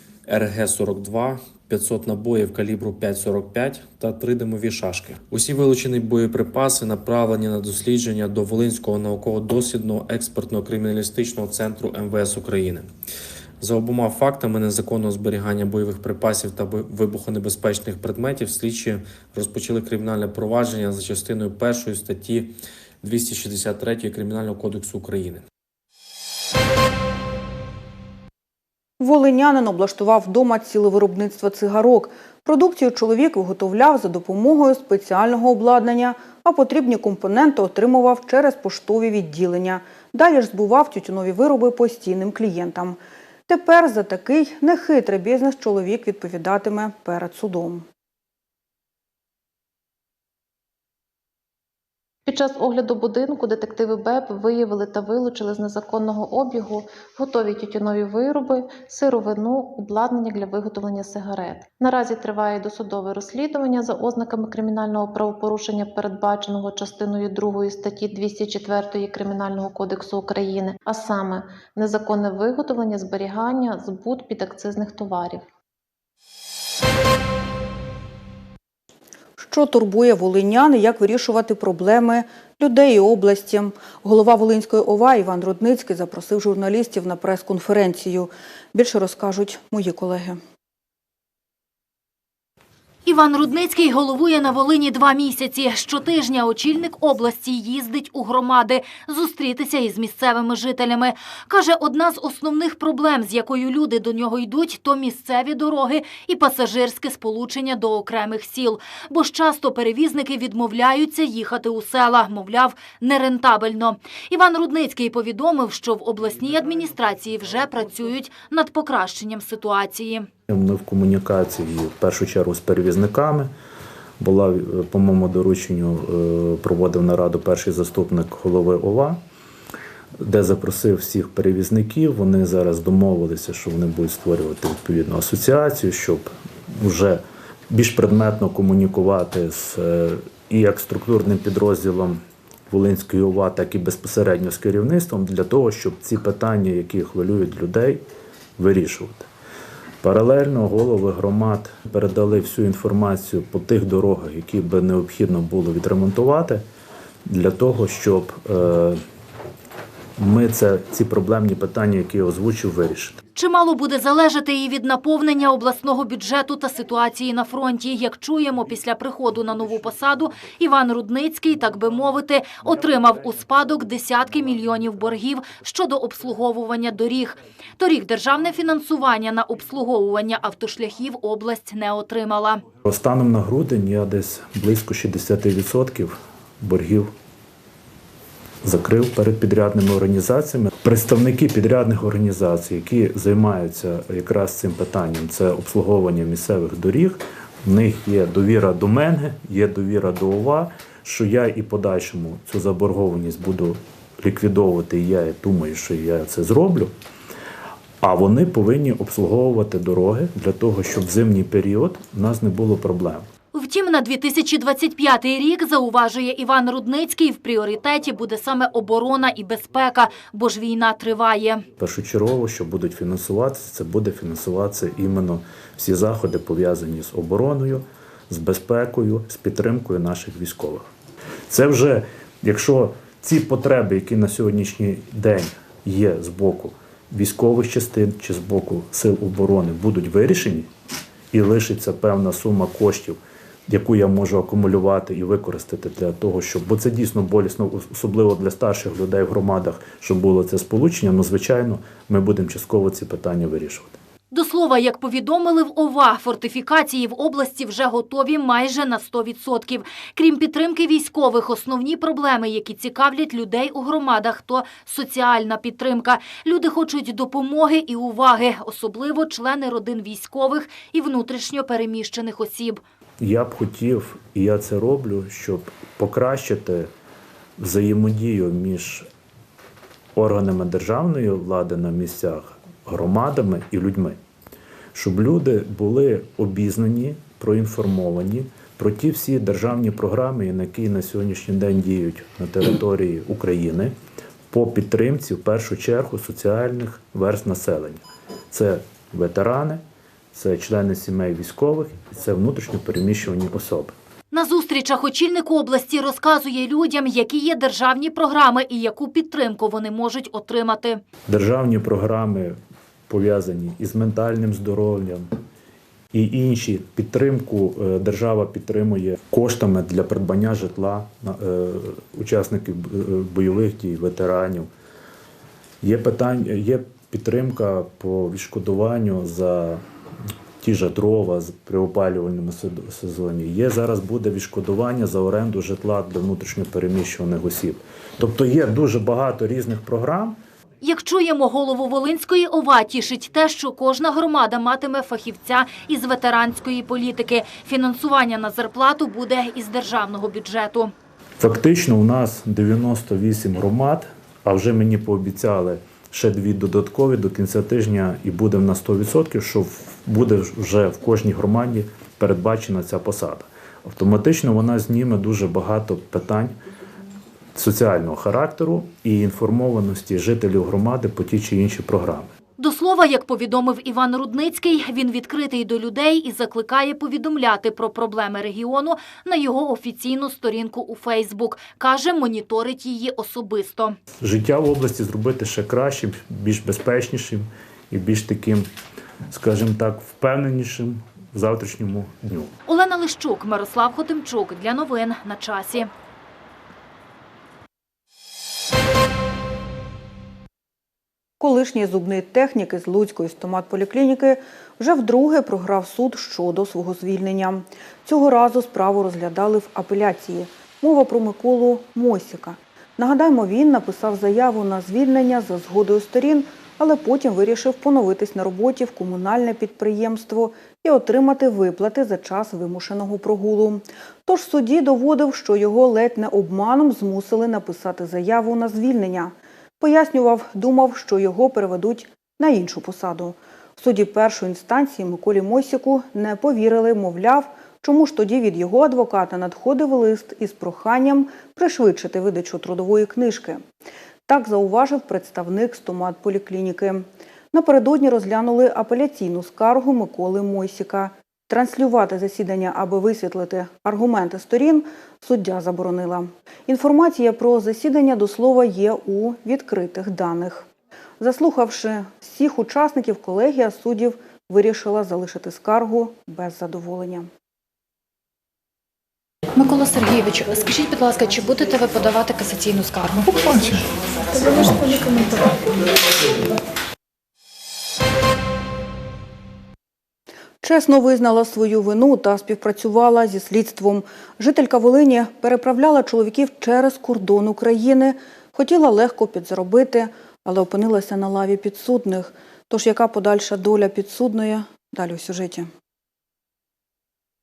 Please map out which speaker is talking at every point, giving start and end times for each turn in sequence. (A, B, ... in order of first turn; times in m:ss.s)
0:00.2-0:12.9 A
0:13.6-0:25.4 A
0:29.0-0:47.8 B
0:52.3-1:15.4 C
1:19.4-1:30.4 B
1:33.0-2:00.3 D
2:00.5-2:03.5 E
2:04.2-2:09.2 E
2:10.2-2:28.0 E
2:28.6-2:29.3 E
2:30.0-2:36.6 E
2:37.2-2:39.0 E
2:40.2-2:43.2 E
2:43.3-3:02.6 D
3:02.8-3:07.1 E
3:08.6-3:26.9 E
3:28.0-3:33.3 E
3:33.5-3:41.6 D
3:41.8-3:50.9 E
3:51.5-4:00.7 E
4:01.3-4:13.9 E
4:14.3-4:32.8 D
4:33.2-4:36.9 E
4:37.6-4:39.1 E
4:40.1-4:44.2 E
4:44.9-4:53.9 E
4:54.5-5:03.9 E
5:04.3-5:11.0 D
5:11.3-5:12.6 E
5:13.1-5:15.3 E
5:16.1-5:24.7 E
5:25.8-5:29.8 E
5:30.6-5:40.4 E
5:40.8-5:50.9 D
5:51.4-6:06.5 E
6:07.5-6:12.3 E
6:12.6-6:24.0 D
6:24.2-6:28.7 E
6:29.3-6:32.5 E
6:32.7-6:35.9 D
6:41.4-7:23.6 B
7:24.3-7:40.7 B
7:41.2-7:47.3 B
7:49.6-7:53.8 F
7:54.3-7:55.0 F
8:00.6-8:15.7 B